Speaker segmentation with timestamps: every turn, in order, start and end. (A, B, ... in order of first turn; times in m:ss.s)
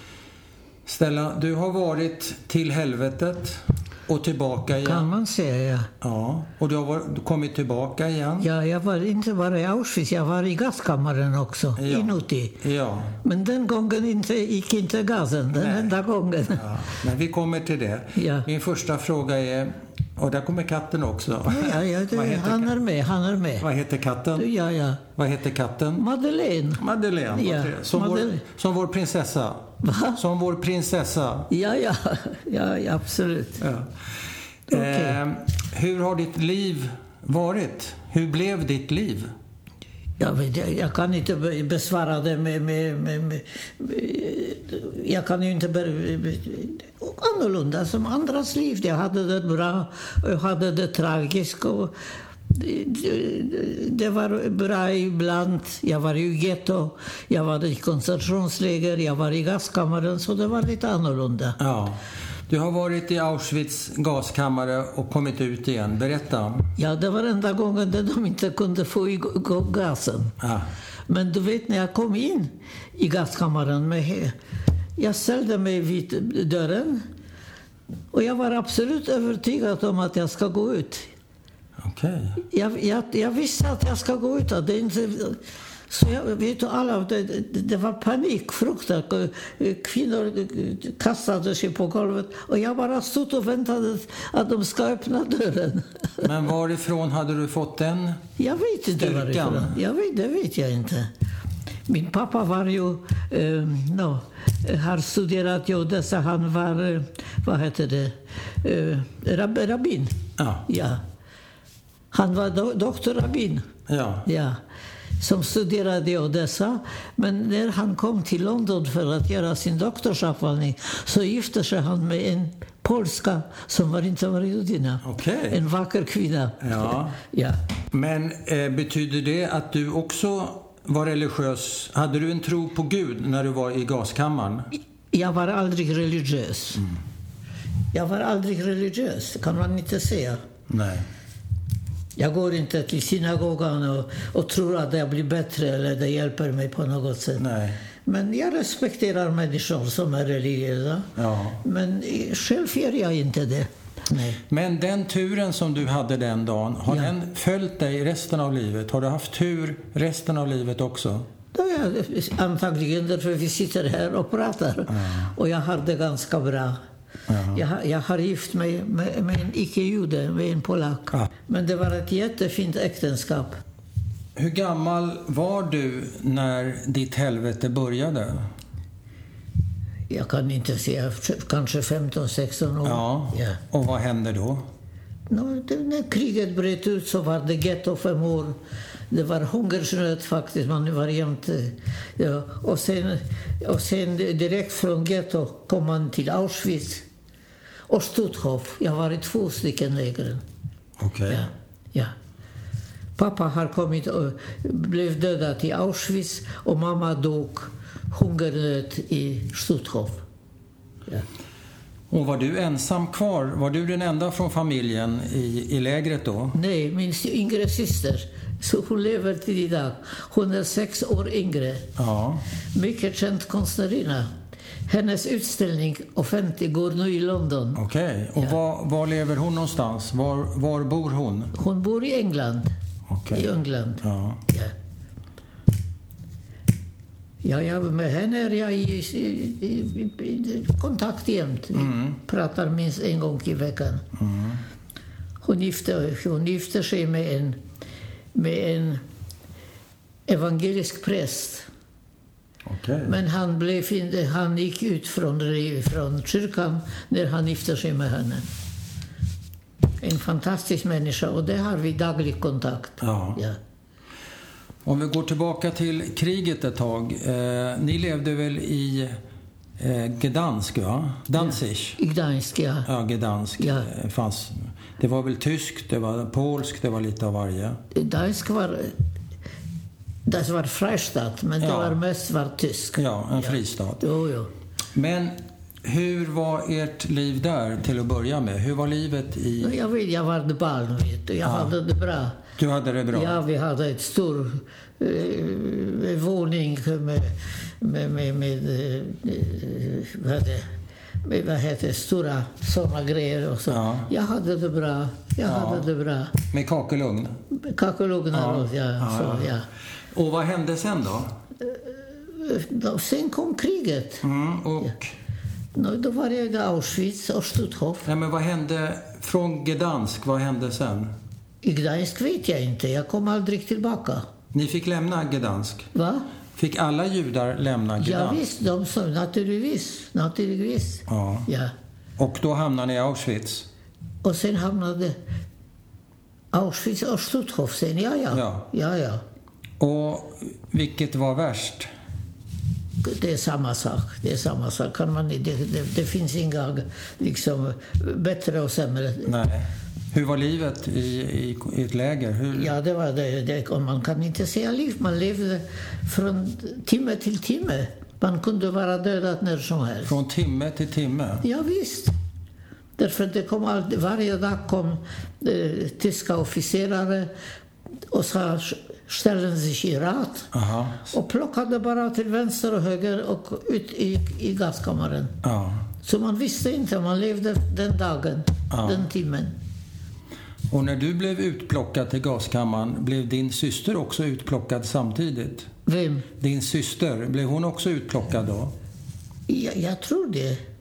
0:00.9-0:05.1 A
0:04.8-0:05.9 B
0:06.0-0:08.5 A
0:08.4-0:12.6 B
0:11.8-0:13.2 A
0:13.2-0:16.7 B
0:15.6-0:15.9 A
0:16.5-0:22.7 A
0:18.2-0:18.5 B
0:21.5-0:23.7 B
0:23.6-0:24.5 A
0:24.4-0:25.0 B
0:25.2-0:26.0 A
0:26.0-0:28.4 B
0:26.8-0:31.5 A
0:29.8-0:30.2 B
0:31.5-0:33.6 B
0:33.6-0:33.9 A
0:34.7-0:39.3 A
0:34.7-0:35.2 B
0:40.2-0:51.9 B
0:52.5-1:01.6 B
1:01.6-1:06.7 A
1:06.8-1:10.3 B
1:10.4-1:10.7 A
1:11.1-1:14.4 B
1:15.0-1:17.0 B
1:18.1-1:21.1 B
1:21.8-1:22.4 A
1:22.4-1:36.3 B
1:36.2-1:38.2 A
1:38.4-1:41.1 B
1:39.0-1:39.8 A
1:41.9-1:50.1 B
1:50.4-1:50.7 A
1:50.7-1:51.0 B
1:52.1-1:53.6 B
1:53.9-1:54.3 A
1:54.3-1:54.6 B
1:55.2-2:07.6 B
2:05.0-2:05.6 A
2:06.6-2:07.2 A
2:07.9-2:14.7 A
2:15.1-2:16.8 B
2:17.9-2:20.4 B
2:20.7-2:21.1 A
2:22.2-2:27.4 B
2:27.4-2:27.8 A
2:28.0-2:31.1 B
2:31.2-2:31.6 A
2:31.6-2:34.4 B
2:34.5-2:41.3 A
2:41.5-2:46.8 B
2:44.9-2:45.3 A
2:47.3-2:47.6 A
2:47.5-2:53.6 B
2:54.4-2:58.5 A
3:00.1-3:03.6 B
3:02.8-3:04.7 A
3:05.3-3:08.6 B
3:09.1-3:17.0 B
3:17.9-3:20.4 B
3:21.0-3:21.5 A
3:21.3-3:22.1 B
3:23.2-3:30.2 B
3:32.1-3:36.6 A
3:36.5-3:41.9 B
3:42.0-3:42.4 A
3:42.7-3:44.3 B
3:44.9-3:47.8 B
3:47.8-3:51.5 A
3:51.5-3:52.7 B
3:53.1-3:53.5 A
3:53.3-3:54.7 B
3:54.0-3:54.4 A
3:57.4-4:04.0 B
4:01.8-4:02.2 A
4:04.2-4:04.6 A
4:05.4-4:07.6 B
4:08.3-4:09.0 B
4:10.3-4:11.7 B
4:12.7-4:13.2 A
4:13.1-4:18.5 B
4:20.0-4:23.6 B
4:23.0-4:23.4 A
4:24.8-4:29.2 A
4:29.8-4:32.0 A
4:31.4-4:32.9 B
4:32.8-4:37.8 A
4:33.6-4:33.9 B
4:37.9-4:38.9 B
4:40.3-4:44.5 B
4:41.6-4:42.0 A
4:43.0-4:44.0 A
4:44.9-4:49.8 A
4:49.6-4:52.4 B
4:51.4-4:51.7 A
4:52.6-4:53.4 A
4:53.1-5:00.7 B
5:01.2-5:06.4 B
5:03.7-5:04.1 A
5:05.4-5:05.9 A
5:06.5-5:07.4 A
5:07.5-5:09.6 B
5:08.3-5:09.5 A
5:10.1-5:11.3 A
5:11.6-5:14.2 B
5:14.2-5:15.1 A
5:15.8-5:18.1 B
5:18.0-5:21.1 A
5:21.6-5:24.2 B
5:24.5-5:25.9 A
5:25.9-5:26.3 B
5:26.6-5:28.4 A
5:28.0-5:31.7 B
5:31.1-5:31.5 A
5:32.2-5:33.7 A
5:34.2-5:35.2 B
5:36.5-5:39.2 B
5:38.3-5:38.7 A
5:39.8-5:41.9 A
5:43.0-5:49.3 B
5:49.2-5:52.7 A
5:52.5-6:00.2 B
6:00.0-6:01.4 A
6:01.4-6:02.1 B
6:03.0-6:07.3 B
6:08.1-6:10.5 B
6:10.5-6:11.1 A
6:11.1-6:15.4 B
6:15.4-6:15.8 A
6:16.0-6:19.5 B
6:18.7-6:19.1 A
6:20.7-6:25.7 A
6:25.9-6:26.3 B
6:26.4-6:28.7 A
6:29.5-6:30.6 B